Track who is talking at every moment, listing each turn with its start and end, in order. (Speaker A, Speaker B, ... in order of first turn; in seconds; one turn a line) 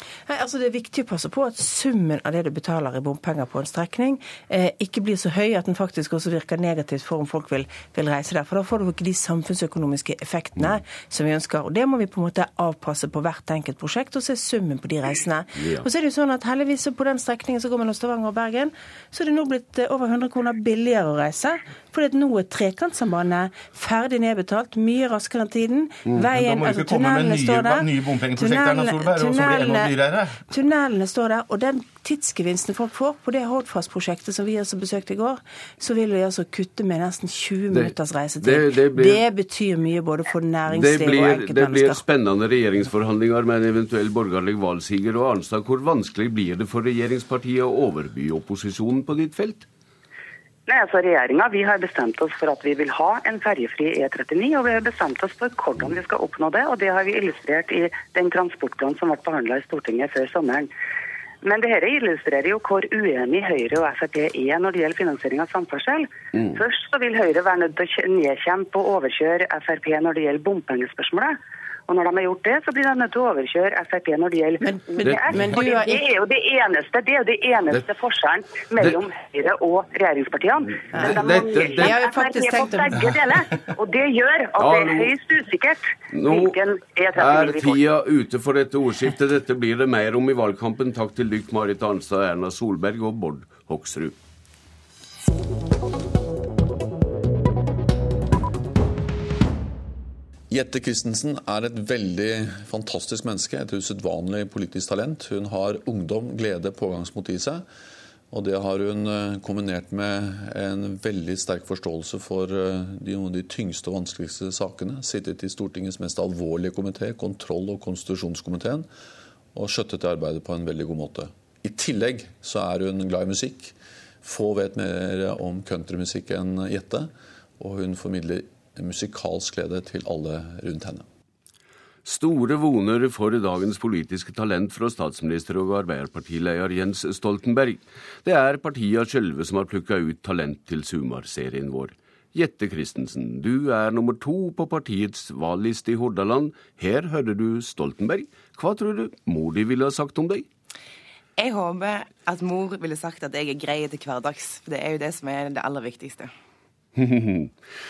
Speaker A: 0.3-29.9
Speaker B: 15.6-15.8
Speaker C: 26.3-30.4
Speaker A: 30.5-42.0
Speaker B: 37.7-39.2
Speaker B: 40.7-49.7
Speaker D: 50.7-60.7
Speaker D: 61.4-71.3
Speaker D: 71.9-87.8
Speaker A: 74.6-76.0
Speaker B: 75.0-75.3
Speaker B: 80.9-82.0
Speaker A: 80.9-83.0
Speaker B: 84.6-85.1
Speaker B: 86.1-86.6
Speaker B: 87.1-94.2
Speaker E: 100.5-107.6
Speaker E: 108.3-118.9
Speaker E: 119.5-131.0
Speaker B: 132.0-150.4
Speaker F: 151.4-156.3
Speaker B: 156.9-157.5